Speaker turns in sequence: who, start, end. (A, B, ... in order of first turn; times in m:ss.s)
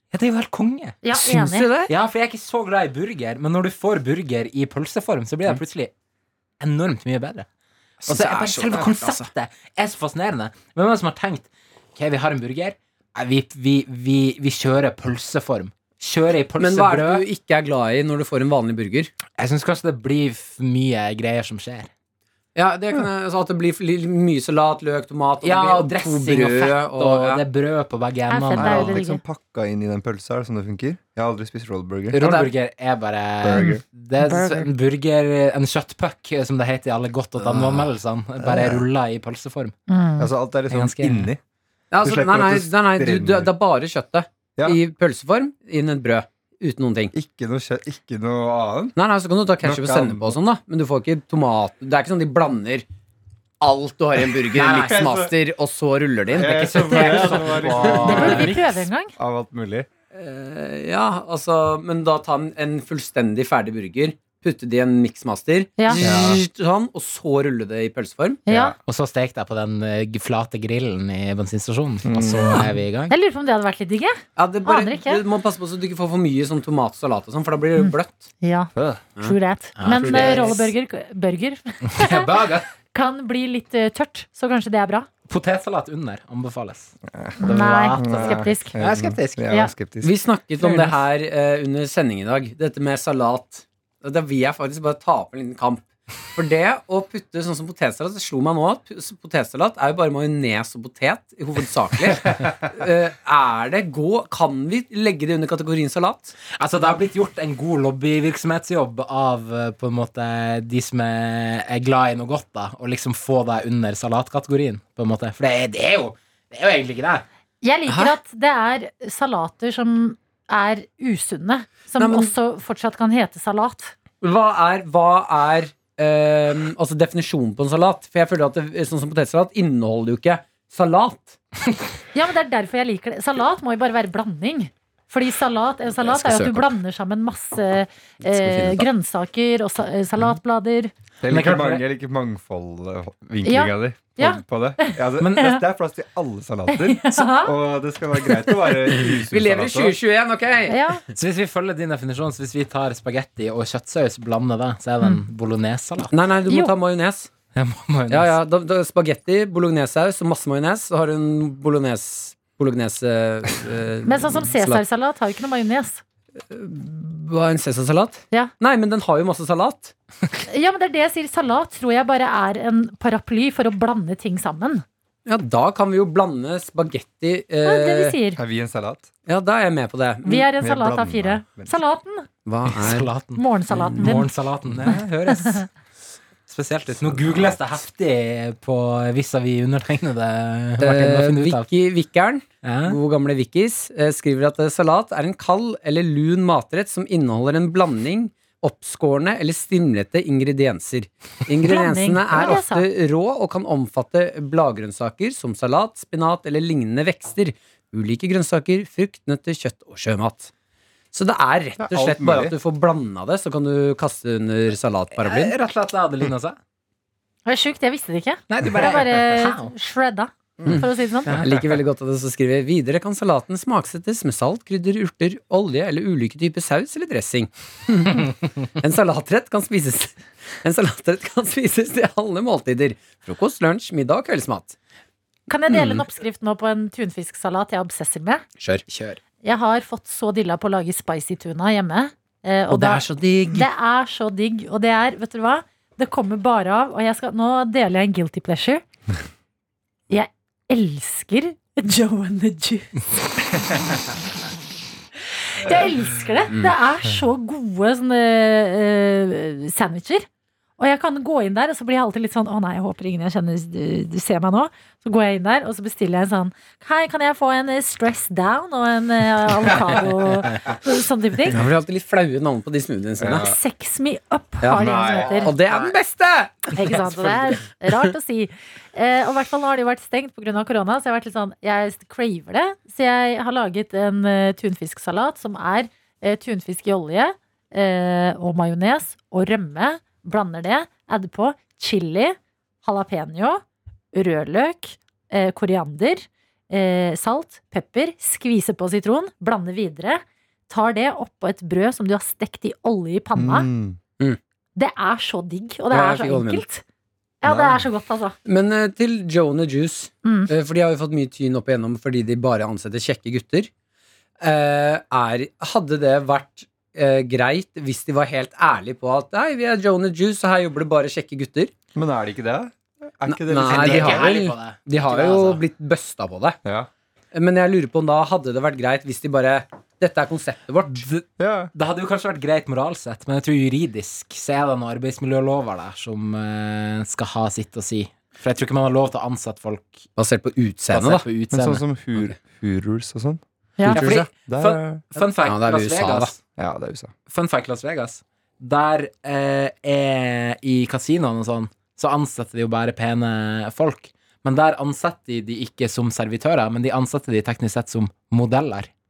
0:00.1-0:01.0 A
0:01.0-0:01.7 B
0:01.2-0:01.9 C
0:01.9-0:05.9 A
0:06.6-0:07.5 A
0:08.0-0:09.3 C
0:08.1-0:17.2 A
0:16.6-0:19.1 C
0:19.4-0:21.9 A
0:22.5-0:27.4 C
0:25.4-0:29.0 A
0:28.3-0:29.2 B
0:28.6-0:32.4 D
0:32.1-0:39.7 A
0:32.2-0:32.5 C
0:33.4-0:33.8 D
0:34.3-0:34.6 B
0:38.4-0:38.8 D
0:39.9-0:40.3 B
0:40.2-0:41.4 D
0:40.7-0:41.3 A
0:41.9-0:47.1 C
0:42.0-0:43.5 D
0:47.1-0:48.9 D
0:49.0-0:52.8 C
0:49.6-0:50.4 D
0:53.6-0:58.5 C
0:54.5-0:55.0 A
0:54.8-0:55.3 D
0:56.3-0:58.6 D
0:56.4-0:58.8 A
0:58.0-0:59.1 B
0:59.2-0:59.9 D
1:00.1-1:08.4 C
1:06.0-1:06.4 D
1:08.5-1:08.7 B
1:08.5-1:08.8 D
1:08.8-1:13.1 A
1:12.0-1:12.7 D
1:13.1-1:15.2 B
1:14.4-1:18.3 C
1:17.8-1:25.1 B
1:18.7-1:19.0 D
1:19.8-1:20.7 A
1:19.9-1:20.7 C
1:21.8-1:22.7 A
1:25.3-1:29.5 A
1:27.1-1:30.1 D
1:27.4-1:28.7 B
1:30.0-1:46.4 C
1:30.6-1:31.0 A
1:46.6-1:57.2 A
1:57.6-2:03.9 B
1:57.9-1:58.1 C
2:02.0-2:02.3 C
2:04.2-2:11.4 C
2:12.1-2:20.9 B
2:16.0-2:16.8 C
2:18.2-2:18.9 C
2:21.2-2:30.0 D
2:21.3-2:21.8 A
2:23.4-2:25.6 B
2:25.2-2:25.5 A
2:26.7-2:27.5 B
2:29.0-2:31.0 C
2:30.7-2:31.0 B
2:31.1-2:36.1 A
2:36.1-2:37.3 C
2:36.5-2:36.7 B
2:37.5-2:38.3 A
2:38.1-2:44.8 C
2:44.0-2:46.0 B
2:46.5-2:49.9 C
2:50.4-2:54.8 B
2:55.2-2:58.2 C
2:57.6-2:58.4 B
2:58.4-2:59.1 D
2:59.2-3:00.5 C
3:00.2-3:02.3 B
3:00.6-3:01.8 D
3:02.4-3:03.1 C
3:02.7-3:03.4 A
3:03.4-3:04.3 B
3:03.7-3:04.2 C
3:03.9-3:05.7 A
3:04.8-3:05.6 B
3:06.5-3:11.7 A
3:07.2-3:07.5 D
3:10.8-3:30.5 C
3:12.6-3:13.0 A
3:21.6-3:22.8 B
3:31.1-3:35.5 C
3:31.8-3:32.5 D
3:35.1-3:36.6 A
3:37.4-3:41.4 B
3:38.5-3:39.7 A
3:40.6-3:54.8 C
3:41.2-3:41.6 A
3:55.5-3:58.4 B
3:55.7-3:56.0 C
3:58.9-3:59.2 A
3:59.4-4:08.8 B
4:02.7-4:03.7 C
4:10.1-4:13.8 B
4:15.5-4:20.3 B
4:20.8-4:31.6 B
4:31.5-4:33.5 C
4:33.2-4:33.6 D
4:33.3-4:35.7 B
4:34.6-4:38.1 C
4:34.7-4:35.5 D
4:36.7-4:53.6 B
4:54.1-5:03.7 B
5:03.3-5:04.0 D
5:04.8-5:06.8 B
5:05.9-5:06.6 C
5:07.4-5:08.3 B
5:07.4-5:07.8 D
5:08.4-5:13.7 C
5:10.2-5:10.5 B
5:14.4-5:21.7 C
5:21.9-5:24.3 D
5:23.3-5:26.6 C
5:23.6-5:25.6 A
5:27.3-5:31.1 C
5:31.0-5:40.1 A
5:31.4-5:31.7 D
5:40.2-5:41.2 C
5:40.9-5:41.8 A
5:41.5-5:43.4 D
5:43.9-5:44.3 C
5:43.9-5:46.4 A
5:44.3-5:45.0 D
5:45.4-5:46.3 C
5:46.6-5:47.1 D
5:47.3-5:58.9 A